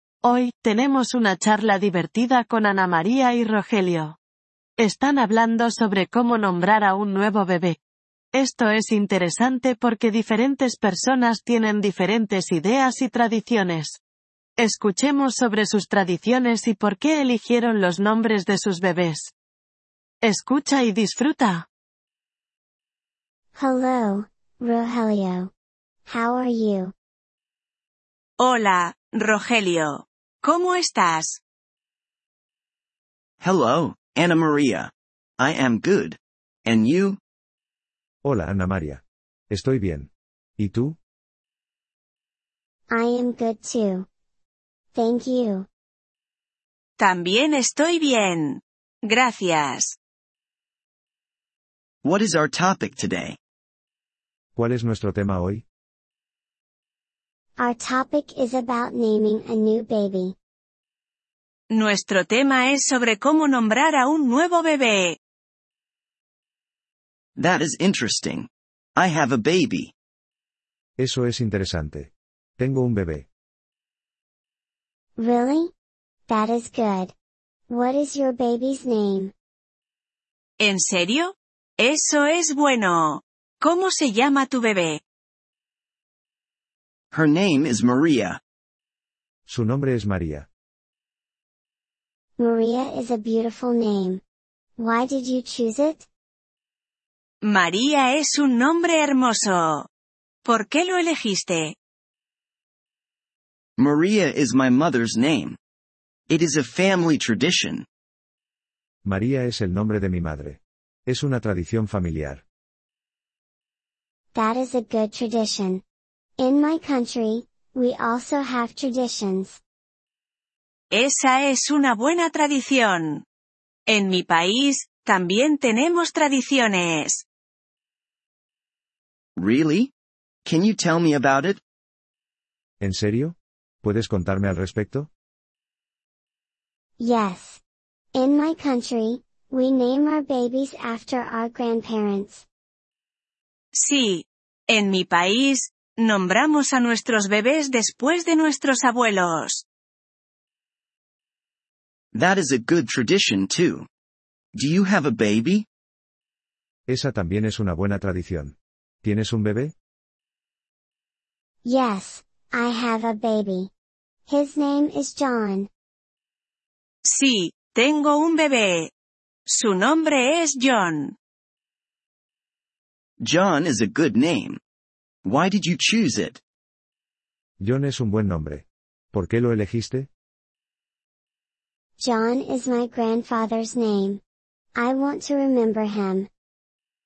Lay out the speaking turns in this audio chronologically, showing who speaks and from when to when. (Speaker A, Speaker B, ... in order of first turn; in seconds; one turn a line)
Speaker A: 0.2-4.2
Speaker A: 4.8-7.8
Speaker A: 8.3-14.0
Speaker A: 14.6-19.3
Speaker A: 20.2-21.7
Speaker B: 23.6-25.5
Speaker B: 26.1-26.9
Speaker C: 28.4-31.4
Speaker D: 33.4-37.2
Speaker E: 38.2-41.0
Speaker B: 42.9-44.1
Speaker B: 44.9-45.7
Speaker C: 47.0-50.0
Speaker D: 52.0-53.4
Speaker E: 54.6-55.6
Speaker B: 57.6-60.4
Speaker C: 61.7-65.2
Speaker D: 67.4-69.9
Speaker E: 71.0-73.3
Speaker B: 75.2-75.7
Speaker B: 76.3-77.1
Speaker B: 77.7-79.3
Speaker C: 80.6-85.0
Speaker D: 87.1-88.4
Speaker E: 89.5-90.5
Speaker B: 92.4-94.2
Speaker B: 94.8-96.1
Speaker C: 97.4-99.9
Speaker C: 100.5-101.8
Speaker D: 103.8-105.6
Speaker D: 106.3-107.9
Speaker E: 109.1-112.4
Speaker B: 114.3-115.8
Speaker B: 116.4-119.6
Speaker C: 120.9-123.2
Speaker C: 123.9-127.2
Speaker D: 129.4-129.9
Speaker D: 130.4-131.6
Speaker E: 132.8-135.1
Speaker B: 137.0-137.6
Speaker B: 138.1-142.4
Speaker C: 143.7-149.7
Speaker D: 152.1-153.9
Speaker D: 154.6-155.7
Speaker E: 156.9-159.7
Speaker B: 161.6-163.7
Speaker B: 164.3-165.7
Speaker C: 167.1-168.9
Speaker C: 169.5-171.2
Speaker D: 173.2-174.6
Speaker D: 175.2-176.4
Speaker E: 177.6-180.1
Speaker B: 182.0-184.2
Speaker B: 184.8-186.3